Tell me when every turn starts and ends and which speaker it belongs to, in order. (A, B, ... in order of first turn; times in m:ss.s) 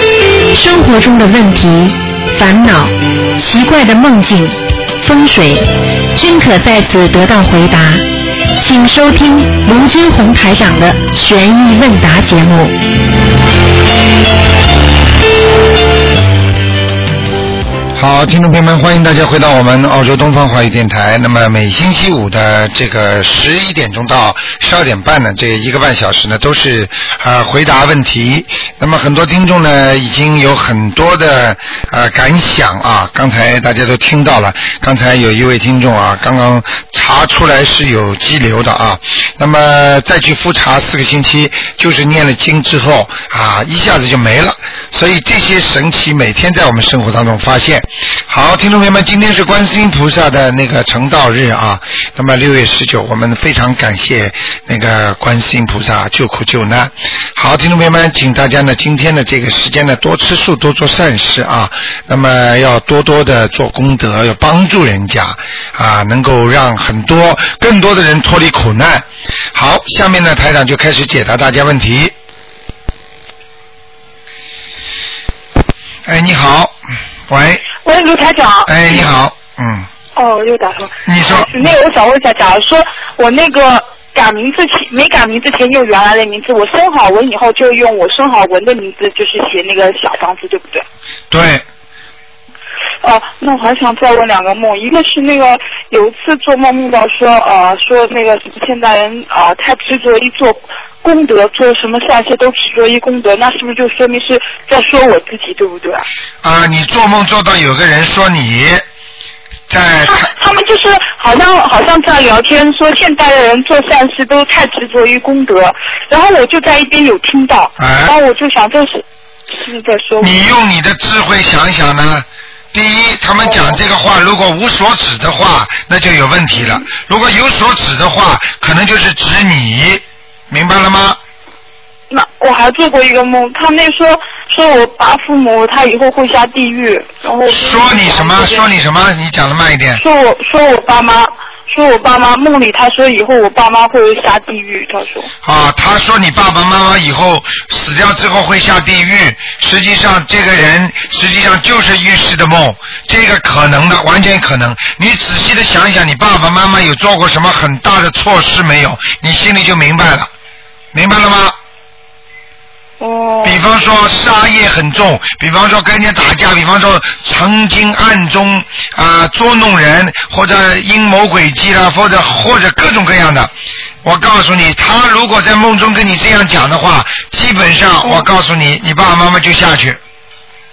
0:00.5-0:08.0 A
0:08.6-0:12.8 A
0:18.0-1:12.1 B
1:16.0-1:16.8 B
1:17.3-1:17.6 B
1:17.8-1:19.1 C
1:18.6-1:19.9 B
1:20.2-1:30.8 C
1:21.0-1:21.7 B
1:31.3-1:31.6 B
1:33.0-1:46.0 C
1:46.4-1:48.8 B
1:49.7-1:50.3 B
1:50.0-2:00.3 C
1:57.8-1:58.1 B
2:00.2-2:11.2 B
2:03.4-2:03.8 C
2:06.5-2:06.8 C
2:12.1-2:18.7 C
2:17.5-2:20.0 B
2:20.0-2:25.3 C
2:25.4-2:40.3 B
2:40.9-2:41.6 B
2:43.0-2:43.6 C
2:43.4-2:53.5 B
2:54.0-3:00.0 B